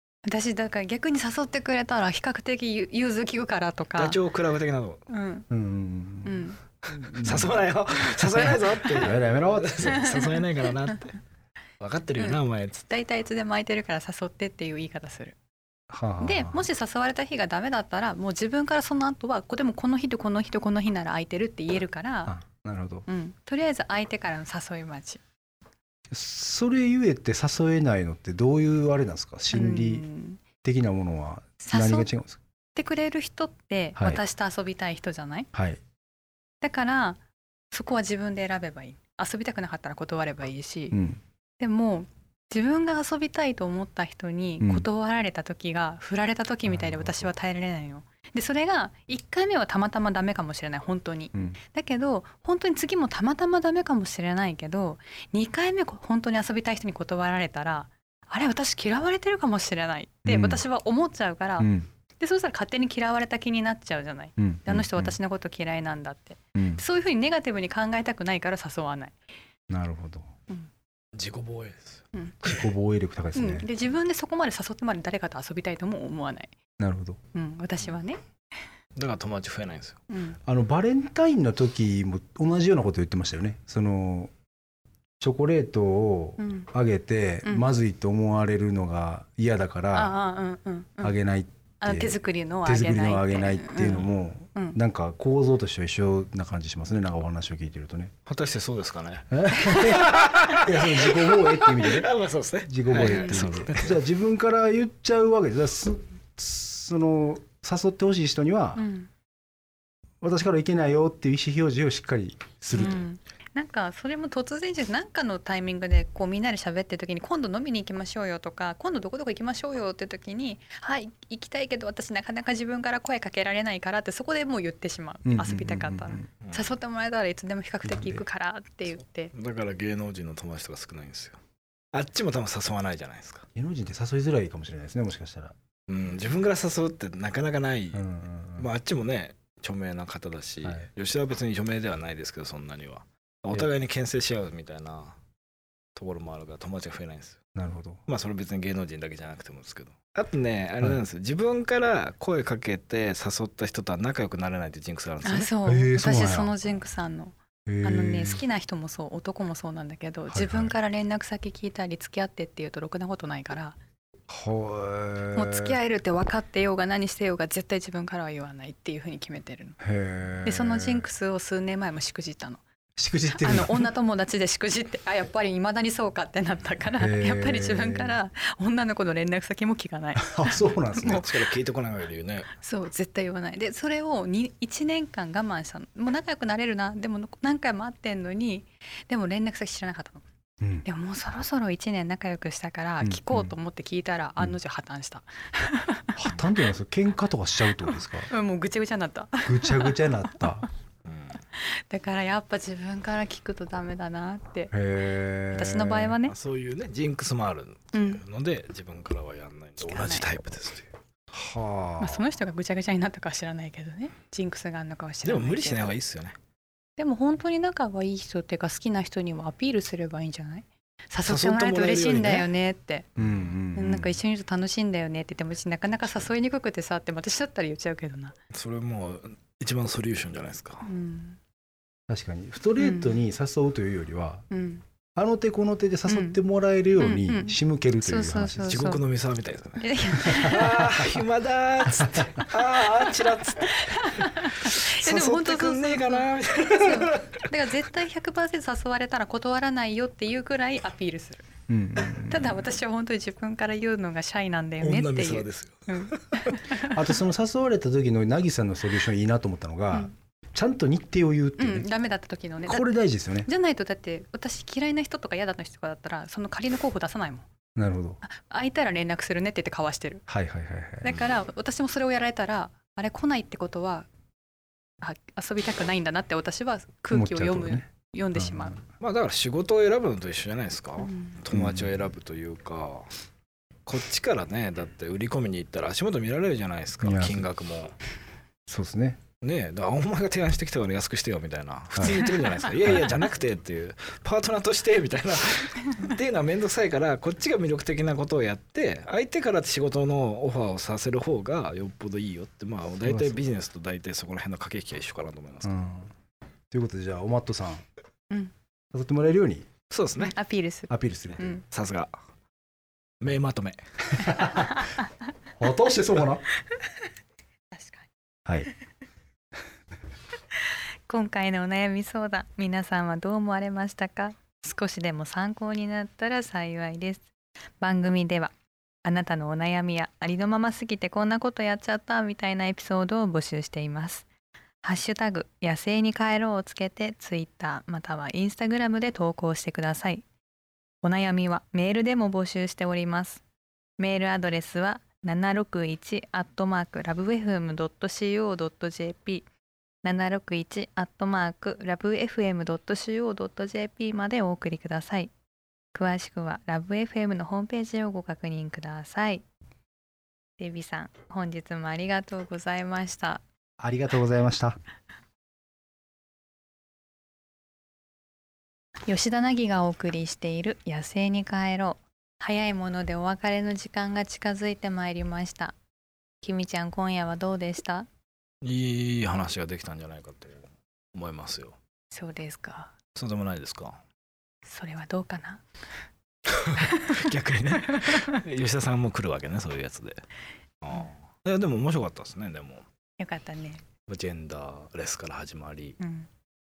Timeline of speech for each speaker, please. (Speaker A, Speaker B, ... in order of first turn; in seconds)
Speaker A: 0.3-4.2, 5.1-5.5, 6.2-6.6, 8.8-9.1, 9.8-10.4, 12.2-15.3, 16.2-22.3, 23.1-25.2, 29.5-30.4, 31.6-32.1, 32.7-35.5, 36.6-37.2, 37.7-41.0, 41.6-69.2, 72.1-72.5, 73.3-76.5, 77.3-78.2, 80.1-80.4, 86.4-86.7, 89.9-91.2, 91.8-94.0, 103.0-103.5, 108.8-109.1, 112.7-129.3, 155.2-163.8, 165.3-169.8, 170.4-172.6, 173.3-181.3, 182.6-190.2, 190.8-196.1, 197.8-200.6, 201.5-204.7, 205.5-206.3, 207.9-208.2, 209.8-210.3, 212.0-215.9, 217.0-223.1, 223.7-228.3, 230.8-231.4, 232.8-233.2, 234.5-234.8, 236.1-236.4, 237.0-239.0, 239.8-240.7, 243.2-251.5, 252.1-257.1, 261.6-262.9, 263.4-267.4, 268.2-270.2, 271.0-274.1, 275.0-278.8, 281.0-281.4, 310.2-311.6, 317.7-318.1, 321.1-328.5, 329.0-334.3, 334.8-340.2, 341.0-343.4, 344.0-349.4, 350.0-355.3, 355.9-359.4, 360.6-363.4, 369.1-375.8, 376.4-378.1, 382.1-382.9, 384.6-385.6, 386.8-387.1, 388.1-388.3, 393.2-393.8, 396.0-396.3
Speaker B: 4.0-5.0, 6.8-11.2, 11.8-12.8, 71.1-72.1, 79.0-80.0, 93.8-94.1, 98.2-104.0, 126.4-126.7, 129.3-131.4, 131.9-133.4, 135.9-138.0, 138.6-145.2, 145.9-147.4, 148.1-155.5, 180.9-182.5, 201.0-201.4, 206.2-210.9, 215.2-216.4, 221.2-222.5, 223.2-223.6, 228.5-230.9, 238.6-247.6, 254.8-256.6, 279.0-283.1, 283.9-287.9, 289.4-305.7, 309.9-310.4, 311.6-312.1, 313.2-314.3, 378.6-381.8, 383.1-384.0, 386.5-390.2, 390.8-392.8, 394.1-396.0
Speaker C: 5.5-7.6, 8.3-10.0, 15.9-16.6, 22.3-23.1, 26.1-30.1, 30.6-32.4, 35.5-35.8, 40.9-41.2, 44.6-44.9, 46.6-47.3, 60.2-60.6, 61.6-61.9, 64.4-65.2, 66.5-66.8, 69.7-70.3, 72.4-73.7, 76.8-77.2, 80.5-84.3, 85.2-90.1, 91.0-98.1, 99.3-102.1, 102.6-108.8, 110.2-113.1, 125.2-126.3, 127.8-128.2, 133.5-135.6, 137.9-138.7, 140.6-140.9, 147.5-148.0, 155.7-156.5, 157.7-158.4, 160.3-160.7, 164.3-165.8, 169.8-171.1, 172.9-173.9, 177.0-178.2, 180.3-181.2, 190.6-190.8, 193.0-193.6, 196.2-198.3, 199.4-200.7, 204.7-206.2, 211.3-212.3, 223.2-224.2, 232.1-234.4, 235.1-238.9, 240.3-241.1, 242.0-242.5, 251.7-252.6, 256.7-261.9, 262.6-263.5, 267.8-268.2, 270.3-271.2, 277.1-278.8, 281.5-282.1, 287.0-287.5, 288.7-289.2, 291.9-292.2, 292.8-293.1, 303.0-303.4, 305.6-306.1, 306.7-307.8, 308.9-309.7, 310.9-311.6, 314.1-314.8, 315.6-316.4, 363.8-364.8